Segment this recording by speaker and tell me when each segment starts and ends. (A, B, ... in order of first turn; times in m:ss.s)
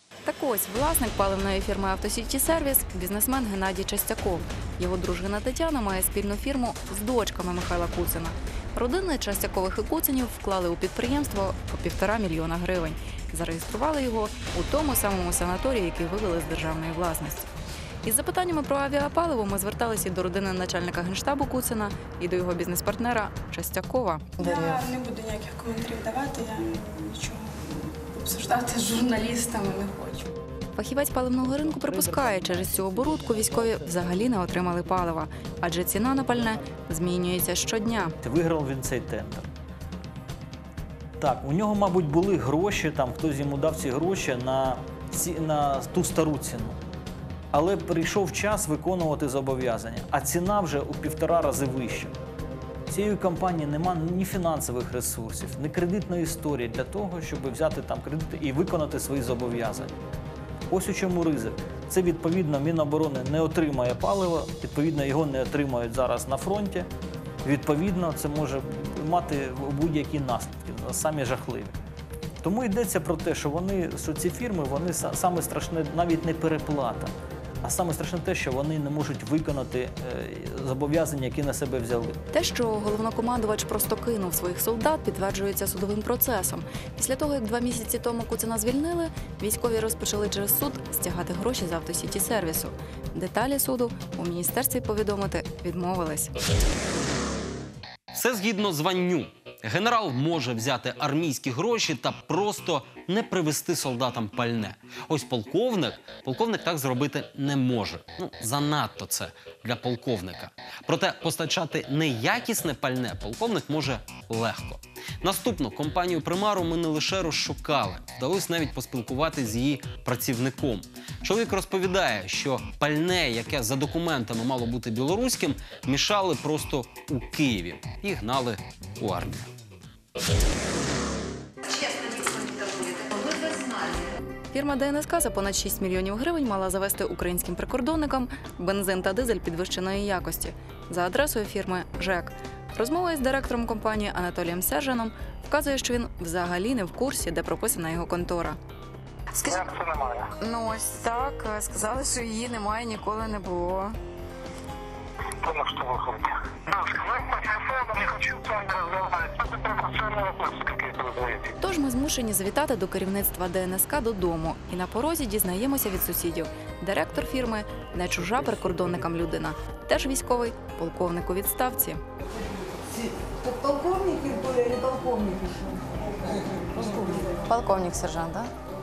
0:00.2-0:17.5 A
0:18.0-0:24.5 A
0:24.4-0:30.3 B
0:30.7-0:38.1 A
0:31.8-0:33.8 C
0:38.2-0:39.5 C
0:41.2-0:46.8 C
0:47.5-0:52.1 C
0:52.9-1:00.0 C
1:00.7-1:06.9 C
1:07.4-1:11.8 C
1:12.4-1:22.2 C
1:22.3-1:36.3 A
1:38.1-2:09.5 D
2:11.6-2:28.6 A
2:29.5-2:30.3 E
2:30.4-2:34.0 A
2:35.4-2:41.5 E
2:41.6-2:52.0 A
2:53.4-2:55.6 A
2:56.7-2:58.5 A